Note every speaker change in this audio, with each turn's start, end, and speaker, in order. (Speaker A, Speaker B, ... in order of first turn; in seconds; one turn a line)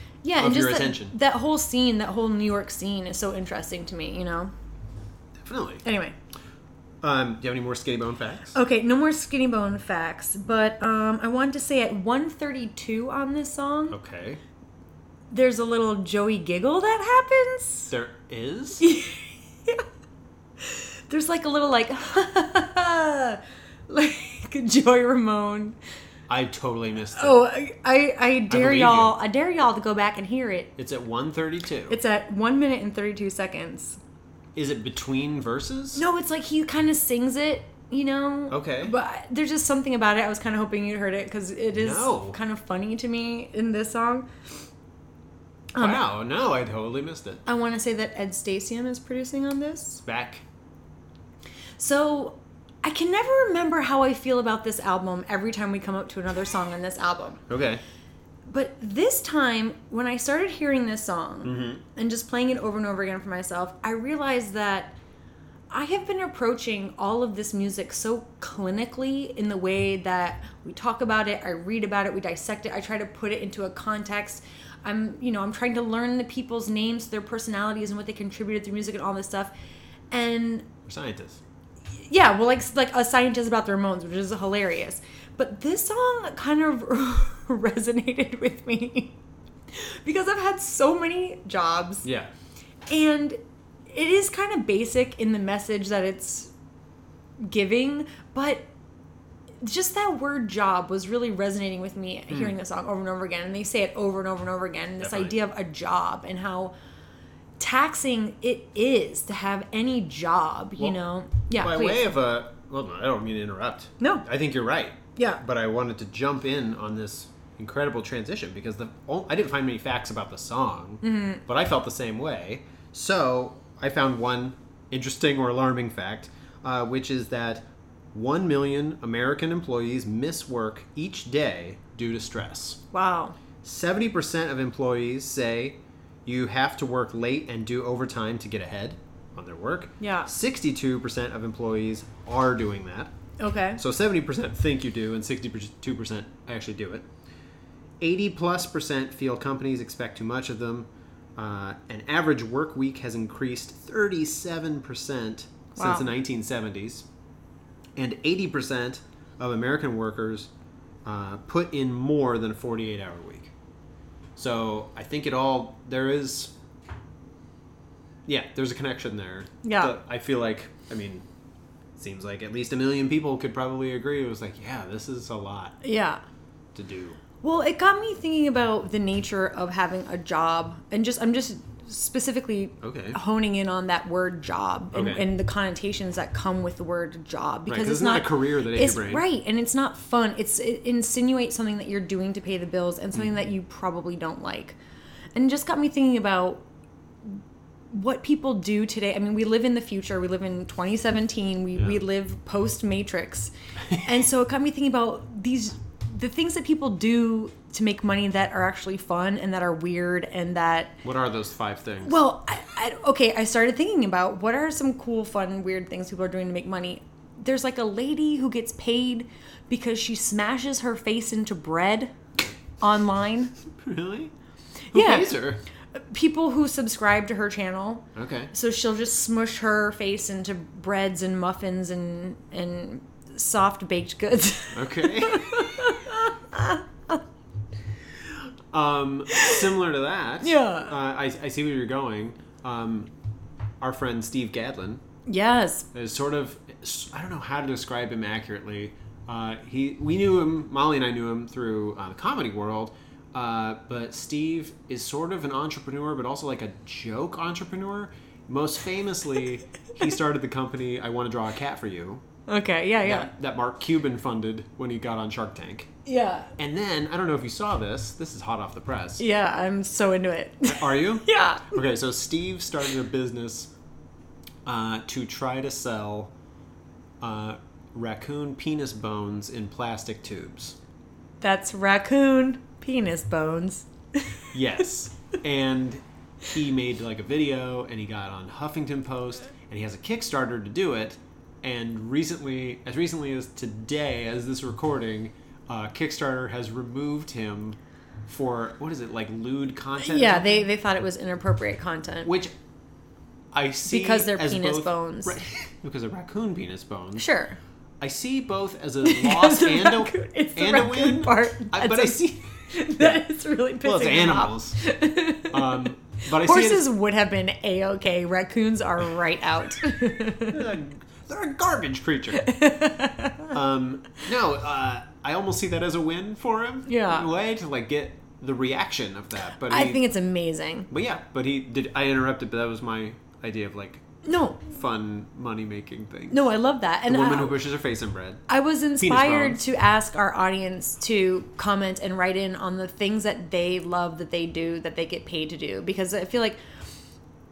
Speaker A: 0.2-4.5
Speaker B: 0.4-1.2
Speaker B: 5.4-5.8
Speaker A: 5.8-6.2
Speaker B: 7.0-8.6
Speaker A: 8.6-14.0
Speaker B: 13.9-14.4
Speaker A: 15.3-17.9
Speaker B: 17.9-18.9
Speaker A: 18.8-19.9
Speaker A: 20.6-25.8
Speaker B: 26.3-27.4
Speaker A: 27.1-30.7
Speaker B: 28.5-29.1
Speaker B: 30.8-32.0
Speaker A: 31.9-34.0
Speaker B: 34.6-36.0
Speaker A: 36.0-44.3
Speaker B: 38.5-39.0
Speaker B: 41.8-42.4
Speaker A: 45.8-46.0
Speaker B: 45.8-47.4
Speaker A: 47.5-50.0
Speaker B: 50.0-50.4
Speaker A: 51.8-57.4
Speaker B: 57.5-57.8
Speaker A: 58.5-65.0
Speaker B: 61.4-61.8
Speaker A: 65.7-79.5
Speaker A: 80.1-80.7
Speaker B: 80.9-81.4
Speaker A: 82.1-89.2
Speaker A: 89.7-92.1
Speaker B: 92.0-92.3
Speaker A: 92.9-93.4
Speaker A: 93.9-96.5
Speaker A: 97.4-98.7
Speaker A: 99.6-106.7
Speaker B: 105.0-105.4
Speaker A: 107.6-112.1
Speaker B: 110.8-132.8
Speaker A: 114.0-114.2
Speaker A: 115.2-115.4
Speaker A: 121.0-121.4
Speaker A: 132.9-133.4
Speaker B: 133.6-143.1
Speaker A: 140.0-140.3
Speaker A: 143.4-143.8
Speaker B: 143.8-147.1
Speaker B: 148.0-157.1
Speaker A: 155.8-156.1
Speaker B: 158.0-160.5
Speaker B: 161.1-163.5
Speaker B: 164.4-166.5
Speaker B: 168.3-171.2
Speaker A: 169.6-170.0
Speaker B: 172.0-175.8
Speaker A: 175.8-176.2
Speaker B: 176.8-177.2
Speaker A: 177.4-194.8
Speaker B: 182.8-183.2
Speaker B: 184.9-185.3
Speaker B: 187.7-189.3
Speaker A: 195.4-196.6
Speaker A: 197.9-211.0
Speaker B: 201.8-202.0
Speaker B: 211.0-212.2
Speaker A: 212.0-222.1
Speaker A: 222.8-223.5
Speaker B: 223.8-224.3
Speaker B: 224.9-225.6
Speaker A: 224.9-237.2
Speaker B: 228.2-228.5
Speaker B: 234.7-235.9
Speaker B: 238.2-243.1
Speaker A: 239.3-239.6
Speaker A: 240.4-240.9
Speaker B: 243.8-245.0
Speaker A: 245.3-245.9
Speaker B: 245.9-262.2
Speaker A: 262.5-263.3
Speaker B: 263.0-265.9
Speaker A: 266.1-266.5
Speaker B: 266.6-269.2
Speaker A: 269.2-271.8
Speaker B: 270.7-273.7
Speaker B: 274.6-276.3
Speaker B: 277.2-280.8
Speaker A: 281.4-284.4
Speaker B: 284.5-300.7
Speaker A: 300.0-302.3
Speaker B: 302.2-302.5
Speaker B: 303.5-307.3
Speaker A: 303.9-305.4
Speaker A: 307.2-307.6
Speaker B: 308.0-313.2
Speaker A: 309.0-312.2
Speaker A: 312.7-320.7
Speaker B: 313.8-314.8
Speaker B: 315.5-316.9
Speaker B: 320.5-322.5
Speaker A: 322.4-323.5
Speaker B: 323.5-330.1
Speaker A: 326.9-327.3
Speaker A: 329.6-330.9
Speaker B: 330.9-334.1
Speaker A: 334.2-334.6
Speaker B: 334.6-336.5
Speaker A: 336.3-337.6
Speaker B: 337.1-338.4
Speaker A: 338.5-346.6
Speaker B: 339.0-339.6